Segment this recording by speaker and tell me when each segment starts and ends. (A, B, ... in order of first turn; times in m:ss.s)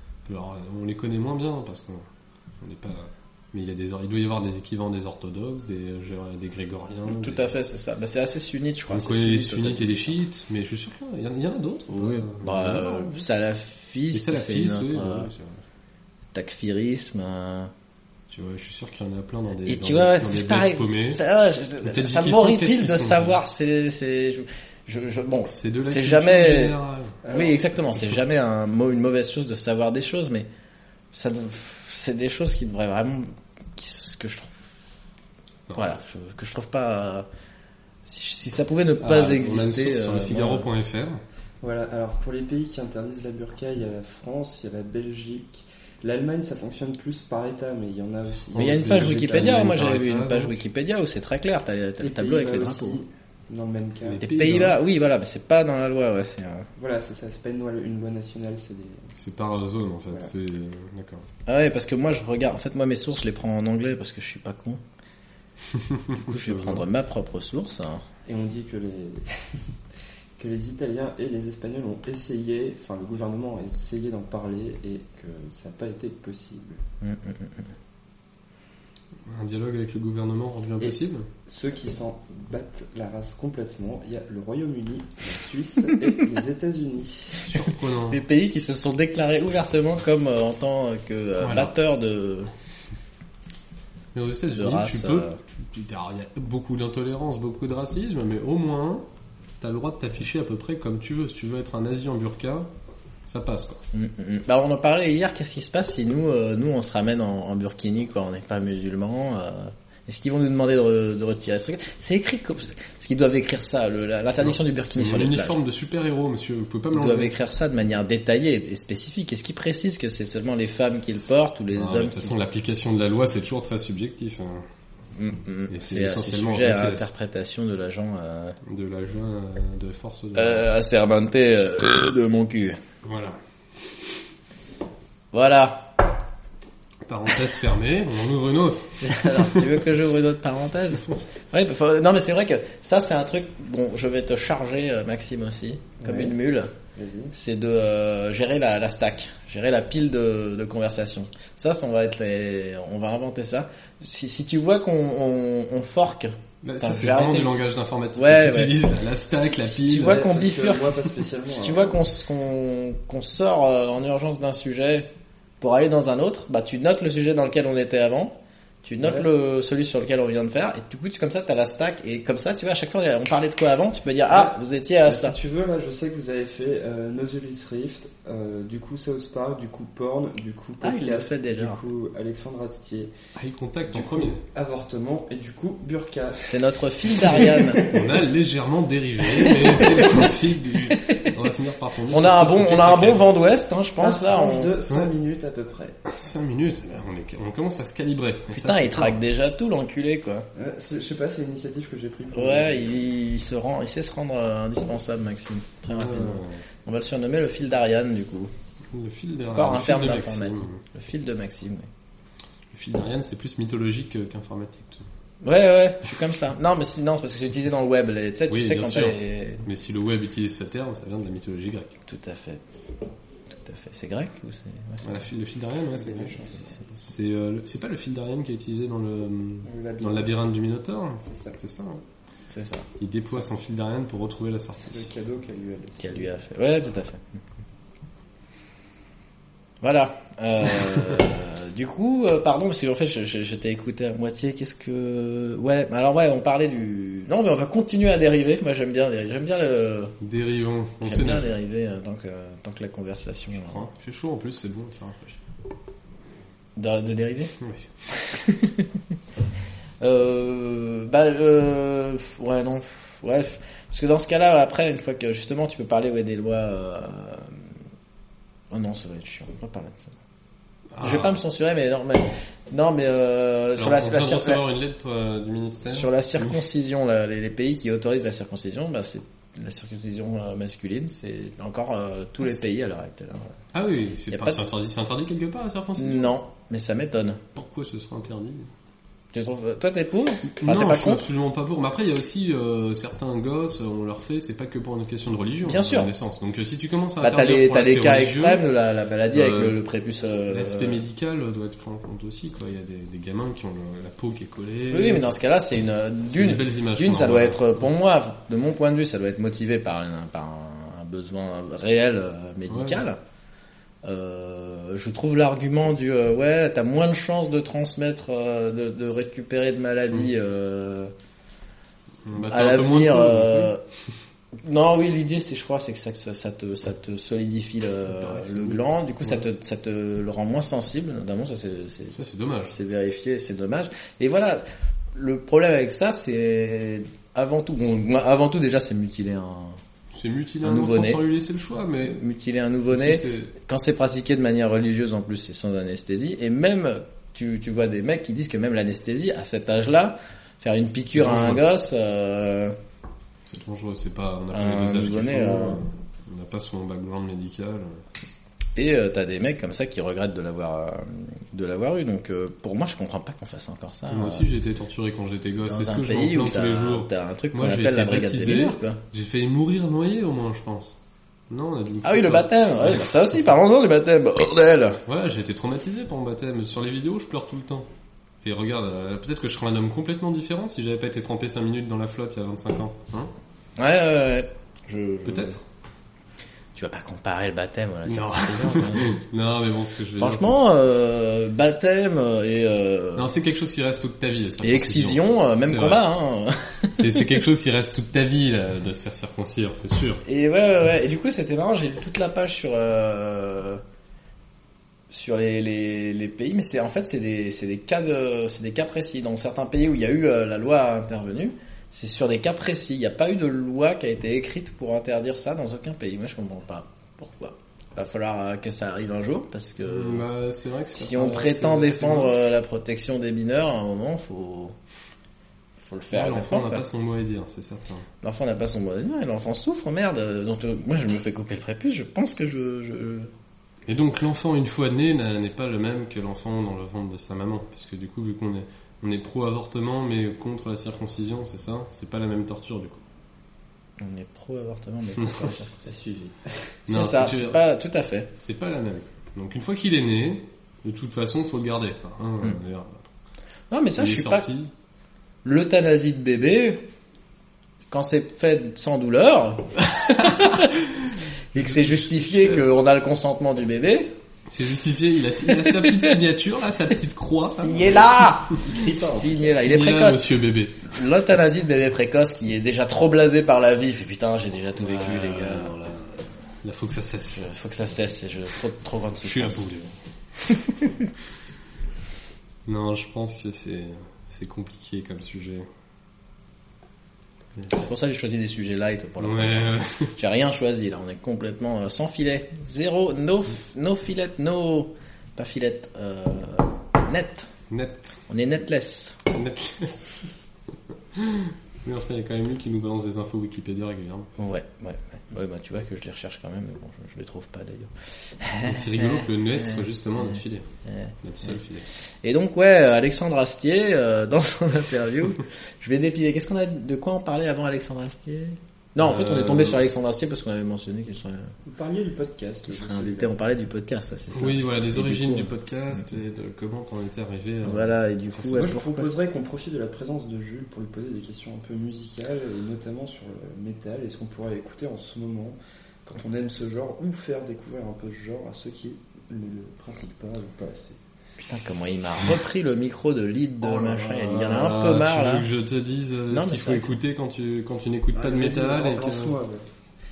0:00.2-0:02.1 A
0:02.6-0:07.4 A
0:07.0-0:10.2 B
0:08.9-0:13.2 A
0:11.9-0:15.3 B
0:14.1-0:15.6 A
0:16.3-0:17.7 B
0:18.3-0:21.2 A
0:19.6-0:26.7 B
0:21.8-0:23.4 A
0:25.5-0:27.2 A
0:27.2-0:27.5 C
0:27.3-0:30.5 B
0:31.1-0:34.6 B
0:35.7-0:37.3 B
0:38.0-0:40.7 B
0:39.0-0:41.2 A
0:41.6-0:49.6 C
0:48.5-0:50.6 A
0:48.6-0:53.0 B
0:52.0-0:54.2 C
0:54.0-0:54.8 A
0:54.2-0:56.7 B
0:56.8-0:59.1 C
0:59.1-1:01.2 A
1:01.4-1:04.8 B
1:05.7-1:06.8 A
1:06.2-1:08.0 B
1:08.2-1:09.6 C
1:10.4-1:16.8 C
1:17.0-1:17.7 B
1:19.2-1:21.3 A
1:20.8-1:27.4 C
1:27.4-1:28.2 A
1:28.1-1:32.5 B
1:31.4-1:31.7 A
1:34.1-1:39.1 A
1:34.5-1:35.4 B
1:39.6-1:42.7 A
1:43.2-1:43.8 A
1:43.9-1:55.6 B
1:54.4-1:57.3 A
1:56.9-2:02.3 B
2:01.7-2:04.6 A
2:05.2-2:08.6 B
2:05.7-2:07.1 A
2:08.6-2:10.7 A
2:10.3-2:12.8 B
2:13.0-2:13.4 A
2:15.3-2:16.0 B
2:17.0-2:19.8 A
2:19.0-2:26.7 B
2:26.0-2:26.3 C
2:26.9-2:27.3 C
2:27.3-2:37.6 B
2:36.6-2:40.2 A
2:38.1-2:38.7 B
2:39.4-2:40.9 B
2:39.9-2:42.0 C
2:41.5-2:45.1 B
2:45.6-2:55.4 B
2:49.0-2:49.3 C
2:54.3-3:03.1 C
3:00.8-3:01.8 B
3:03.3-3:04.4 A
3:03.9-3:08.1 C
3:06.4-3:07.8 B
3:07.8-3:13.2 A
3:09.4-3:10.1 B
3:09.8-3:10.1 C
3:10.8-3:11.4 B
3:12.1-3:14.8 B
3:14.0-3:16.0 C
3:16.0-3:19.2 A
3:18.5-3:20.5 B
3:20.5-3:23.0 C
3:22.3-3:28.5 B
3:25.9-3:26.6 A
3:28.9-3:30.8 A
3:29.5-3:31.9 B
3:32.7-3:35.0 A
3:35.4-3:39.6 B
3:38.5-3:42.0 A
3:42.0-3:42.6 B
3:43.6-3:45.1 B
3:45.0-3:46.4 A
3:45.9-3:46.7 C
3:46.9-3:52.0 A
3:49.6-3:50.4 C
3:51.2-3:51.6 C
3:52.5-3:52.9 B
3:53.0-3:55.1 A
3:54.8-3:56.3 C
3:56.0-3:57.4 B
3:59.8-4:10.2 B
4:10.2-4:11.5 A
4:11.0-4:13.8 B
4:13.5-4:15.4 A
4:16.8-4:17.5 B
4:17.6-4:17.9 A
4:18.1-4:19.0 B
4:20.0-4:27.7 B
4:28.7-4:30.1 B
4:30.9-4:31.4 A
4:31.0-4:34.6 B
4:33.8-4:36.6 A
4:35.9-4:43.6 B
4:43.7-4:46.3 A
4:44.3-4:44.6 B
4:46.0-4:47.4 B
4:47.5-4:48.7 A
4:49.3-4:51.2 B
4:50.5-4:58.6 A
4:55.6-4:56.1 B
4:57.2-5:01.0 B
4:59.3-4:59.7 A
5:00.5-5:05.3 A
5:04.9-5:13.2 B
5:06.3-5:07.8 A
5:12.7-5:13.0 A
5:14.0-5:21.1 B
5:22.2-5:23.7 A
5:22.4-5:23.8 B
5:24.6-5:34.6 B
5:28.1-5:29.4 A
5:32.1-5:32.8 A
5:35.1-5:39.8 B
5:40.1-5:42.2 A
5:40.6-5:41.2 B
5:42.1-5:52.8 B
5:42.9-5:43.5 A
5:51.1-5:51.6 A
5:53.4-5:58.0 A
5:54.5-5:55.8 B
5:58.8-6:04.5 B
6:04.1-6:11.0 A
6:05.6-6:09.0 B
6:11.5-6:13.4 A
6:12.0-6:15.0 B
6:15.0-6:17.9 A
6:18.4-6:23.3 A
6:23.8-6:25.6 B
6:25.2-6:25.6 A
6:26.7-6:29.2 B
6:28.0-6:30.6 A
6:30.2-6:33.3 B
6:33.2-6:36.0 A
6:34.6-6:37.3 B
6:36.9-6:40.2 A
6:40.2-6:43.8 B
6:45.1-7:00.2 B
6:59.8-7:02.3 A
7:00.9-7:04.7 B
7:05.8-7:06.8 B
7:06.1-7:08.0 A
7:08.2-7:13.3 B
7:13.9-7:23.0 A
7:24.0-7:25.8 B
7:25.2-7:25.6 A
7:25.8-7:26.5 C
7:26.9-7:27.6 A
7:26.9-7:28.3 B
7:28.3-7:33.1 A
7:33.7-7:34.5 B
7:34.0-7:34.7 A
7:35.4-7:36.8 B
7:37.9-7:40.7 B
7:39.9-7:42.7 A
7:41.5-7:44.1 B
7:44.5-7:47.9 A
7:45.6-7:46.1 B
7:47.5-7:56.0 B
7:47.7-7:49.7 C
7:49.6-7:50.9 A
7:54.8-7:56.0 A
7:56.6-7:57.5 A
7:57.3-7:59.7 B
7:59.2-7:59.9 A
8:00.4-8:01.1 B
8:02.6-8:05.7 A
8:07.6-8:07.8 A
8:07.7-8:17.5 B
8:09.2-8:10.2 A
8:17.7-8:18.2 A
8:18.3-8:19.2 B
8:19.3-8:20.3 A
8:20.9-8:24.3 A
8:24.4-8:31.6 B
8:28.6-8:30.6 A
8:31.2-8:31.8 A
8:32.2-8:41.5 B
8:39.0-8:39.8 A
8:41.6-8:43.4 C
8:42.7-8:45.5 B
8:44.3-8:48.5 A
8:47.6-8:49.1 B
8:48.5-9:01.0 C
9:01.4-9:05.4 B
9:03.7-9:04.3 C
9:04.2-9:09.4 A
9:06.3-9:06.9 B
9:08.1-9:09.6 C